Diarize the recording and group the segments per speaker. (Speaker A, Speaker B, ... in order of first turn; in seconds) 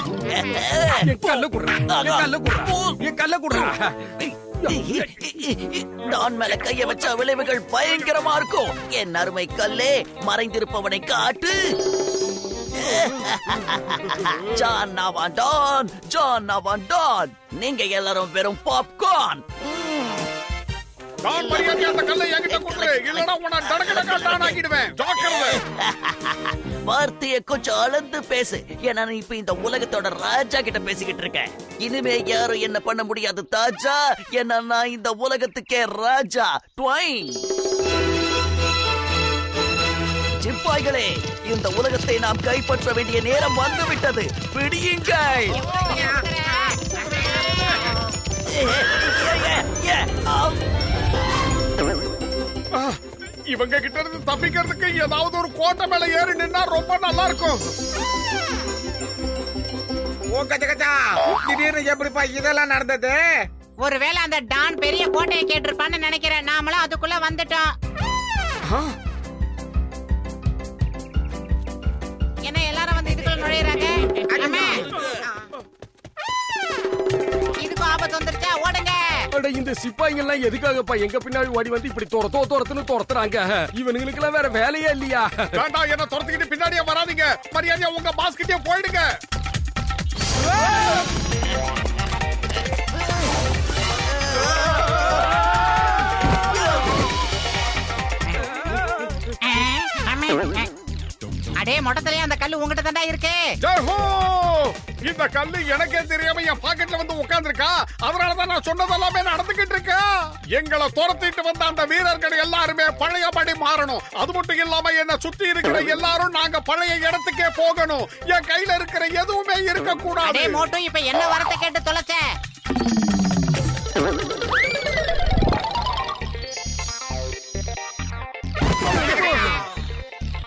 Speaker A: 0.3-11.7, 12.7-20.3, 21.5-22.0, 22.5-24.6, 25.2-37.4, 40.4-45.6, 48.5-50.6, 94.5-95.1, 96.5-96.8
Speaker B: 1.0-5.0, 79.3-85.6
Speaker C: 21.2-25.6, 45.6-46.0, 52.7-53.0, 53.5-57.7, 85.5-89.1, 103.6-120.7, 128.9-129.6
Speaker D: 45.5-47.9, 63.8-67.7, 72.4-74.9, 77.6-79.0, 99.4-100.7, 101.6-103.5, 120.3-122.2
Speaker E: 45.9-46.2, 60.3-63.2, 74.3-75.5